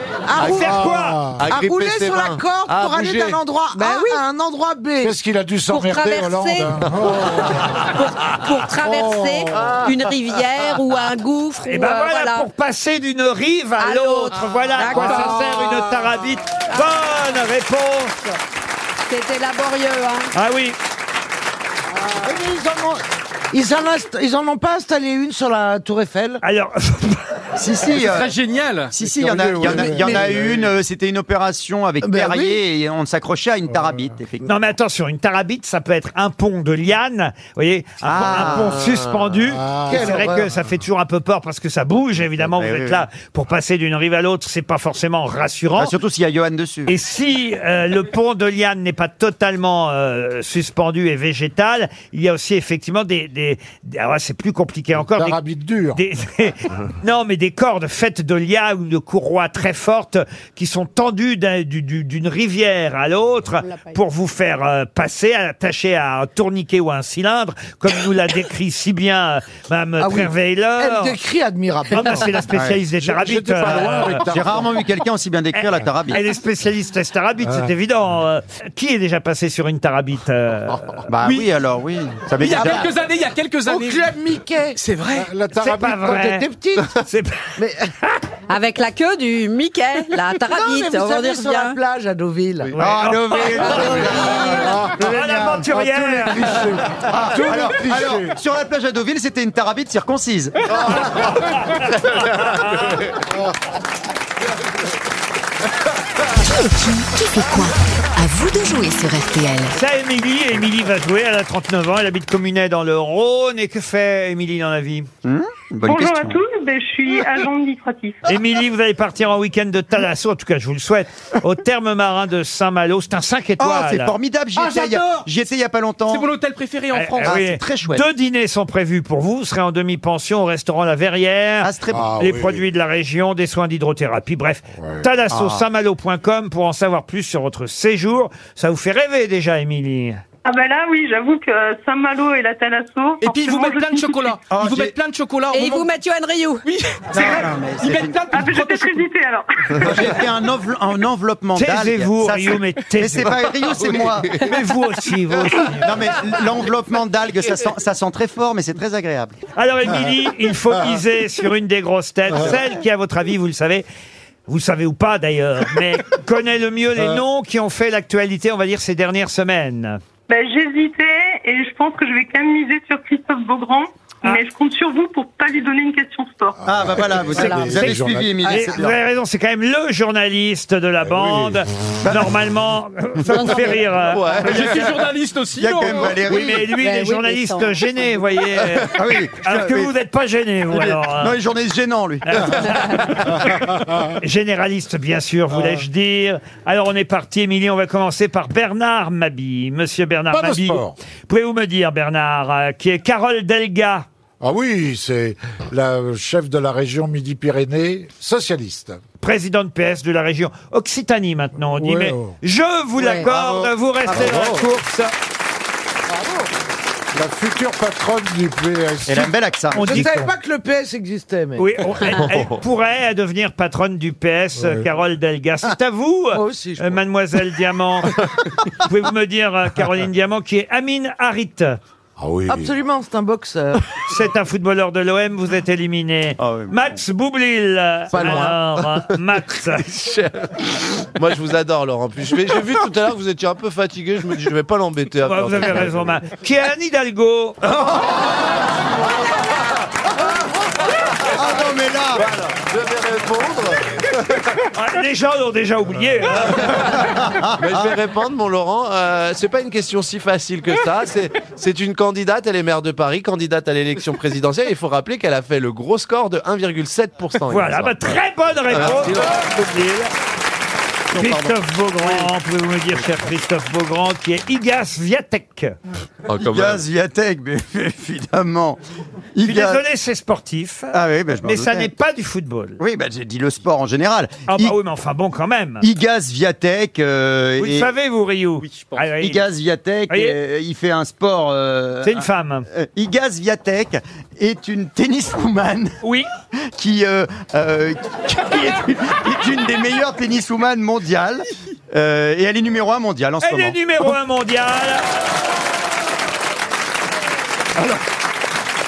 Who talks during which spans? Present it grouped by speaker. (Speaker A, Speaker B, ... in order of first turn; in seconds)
Speaker A: 0.3-0.8, 1.5-5.2, 22.1-26.4, 29.6-30.4, 32.0-32.6, 39.9-40.5, 70.0-72.4, 83.7-84.8, 86.0-86.9, 87.6-87.9, 90.4-92.7, 93.5-94.6, 178.4-178.8, 216.1-216.5, 219.8-221.7, 226.3-227.0, 232.5-233.8, 238.1-238.7
Speaker B: 0.4-0.8, 1.4-3.4, 9.6-10.0, 38.4-39.2, 100.7-103.2, 153.3-154.5, 184.0-184.9, 222.0-222.6, 239.7-246.2, 247.7-248.4, 252.1-254.6, 256.6-256.9, 257.6-269.5, 276.3-276.9
Speaker C: 0.4-1.2, 11.7-18.2, 20.3-20.8, 26.4-27.2, 34.4-45.9, 46.9-55.4, 56.0-71.2, 71.9-74.3, 75.5-81.0, 85.6-87.5, 92.7-94.1, 95.0-96.7, 101.8-103.0, 109.7-115.1, 118.3-124.1, 127.0-140.2, 151.6-153.4, 154.3-155.9, 159.6-163.9, 164.5-170.0, 177.7-184.6, 186.2-191.4, 192.3-193.6, 194.2-204.1, 209.2-215.1, 219.8-220.1, 221.6-228.2, 228.8-231.8, 234.1-239.9, 245.3-247.6, 254.8-256.9, 267.5-270.1, 271.1-275.8, 279.4-282.8, 284.5-285.9, 287.6-289.4, 290.1-290.4, 292.0-292.7, 296.0-296.3, 303.4-305.1
Speaker D: 0.5-1.5, 5.0-7.9, 8.8-9.8, 14.9-16.1, 29.0-30.7, 33.7-34.1, 39.5-40.6, 55.1-56.0, 73.0-74.8, 77.4-77.7, 85.2-86.2, 94.5-98.4, 131.9-132.7, 134.8-135.1, 176.6-178.4, 181.0-181.6, 195.5-195.8, 200.3-201.0, 204.4-209.0, 211.7-212.4, 214.1-214.6, 217.1-220.3, 224.6-224.9, 232.2-232.8
Speaker E: 3.7-4.2, 5.7-6.8, 7.8-12.5, 13.8-15.5, 16.7-17.1, 19.1-20.3, 63.6-64.0, 88.5-91.8, 93.6-94.8, 145.5-146.7, 177.3-177.7, 183.3-183.8, 186.7-188.2, 213.0-213.3
Speaker F: 27.6-28.3, 28.9-34.5, 38.0-38.8, 42.4-43.1, 45.8-46.9, 72.5-72.8, 74.3-76.2, 81.1-82.9, 92.8-94.7, 97.1-100.7, 115.2-116.4, 123.6-126.3, 127.2-128.1, 131.6-132.1, 135.3-135.7, 144.5-144.9, 147.1-148.2, 149.8-154.4, 155.7-159.4, 176.7-179.0, 182.0-182.3, 184.5-185.0, 185.6-186.7, 188.9-189.9, 190.7-193.0, 213.2-214.5, 219.1-220.1, 236.4-236.8, 251.3-252.3, 257.0-258.0, 271.1-271.6, 276.4-278.8, 279.4-279.8, 280.9-281.9, 282.8-284.8, 285.8-287.9, 289.2-295.9, 296.7-303.8
Speaker G: 27.9-28.9, 81.2-81.5, 82.4-84.1, 84.8-85.3, 124.5-125.3, 126.1-127.5, 143.2-145.9, 146.7-149.1, 184.4-186.2
Speaker H: 106.4-109.8
Speaker I: 115.8-118.2, 140.5-144.4, 148.3-149.9, 170.3-176.6